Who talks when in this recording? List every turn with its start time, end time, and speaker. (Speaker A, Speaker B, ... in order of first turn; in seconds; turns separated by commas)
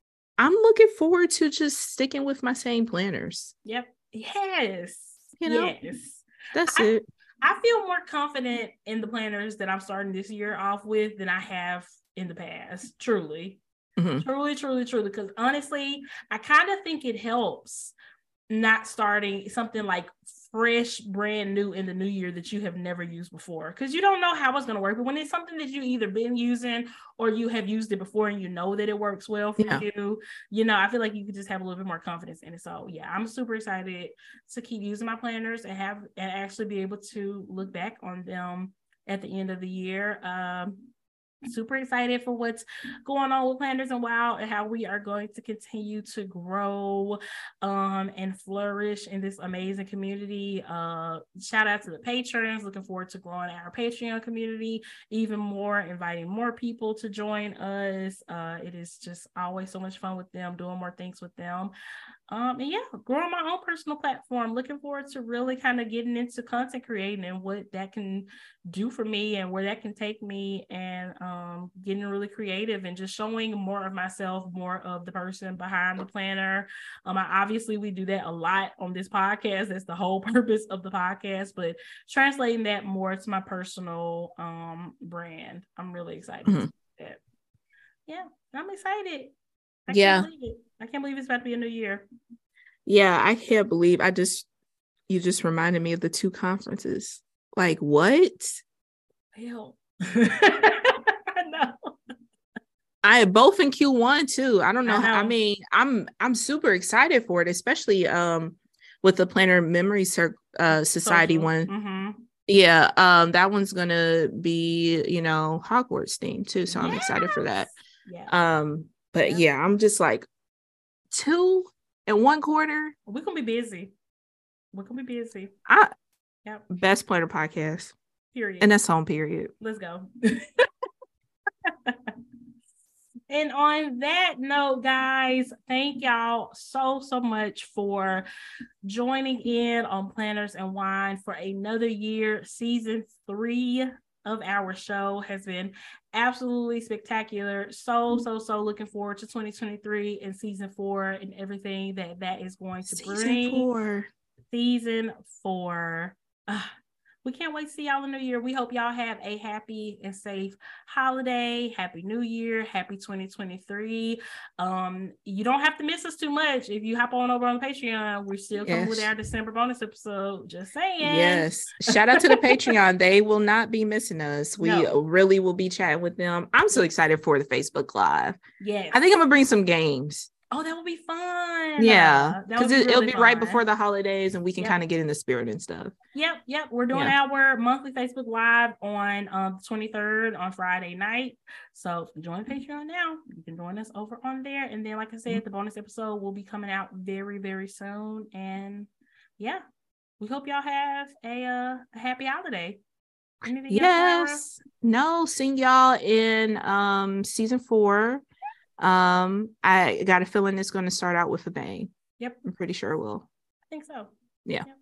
Speaker A: 0.4-3.5, Speaker B: 3.7-6.9, Speaker A: 5.4-5.7, Speaker A: 6.5-7.0, Speaker B: 7.4-13.6, Speaker A: 14.0-14.3, Speaker B: 14.2-17.9, Speaker B: 18.5-40.9, Speaker A: 29.6-29.9, Speaker B: 41.5-61.7, Speaker B: 62.3-87.2, Speaker B: 88.1-89.3, Speaker B: 89.9-92.0, Speaker A: 89.9-90.3, Speaker A: 92.9-94.5, Speaker A: 95.1-98.6, Speaker B: 99.4-101.9, Speaker A: 103.0-111.7, Speaker B: 104.9-105.3, Speaker B: 110.7-112.2, Speaker A: 112.5-117.7, Speaker B: 116.7-118.3, Speaker A: 118.3-120.3, Speaker A: 121.1-123.0, Speaker B: 123.1-123.9, Speaker B: 124.7-125.5, Speaker A: 125.7-125.9, Speaker A: 126.7-128.0, Speaker B: 128.3-128.7, Speaker A: 128.6-129.5, Speaker B: 129.6-130.7, Speaker B: 131.7-132.1, Speaker B: 133.3-138.3, Speaker B: 138.8-153.7, Speaker A: 152.9-154.1, Speaker B: 154.5-156.7, Speaker B: 157.2-172.7, Speaker A: 168.6-169.1, Speaker A: 171.0-178.4, Speaker B: 174.6-174.9, Speaker B: 178.6-179.0, Speaker A: 178.9-180.3, Speaker B: 180.5-183.6, Speaker A: 181.8-185.9, Speaker B: 186.2-198.9, Speaker B: 200.2-202.8, Speaker B: 203.4-204.4, Speaker A: 203.7-208.2, Speaker A: 208.8-211.9, Speaker A: 212.4-213.3, Speaker B: 213.7-214.1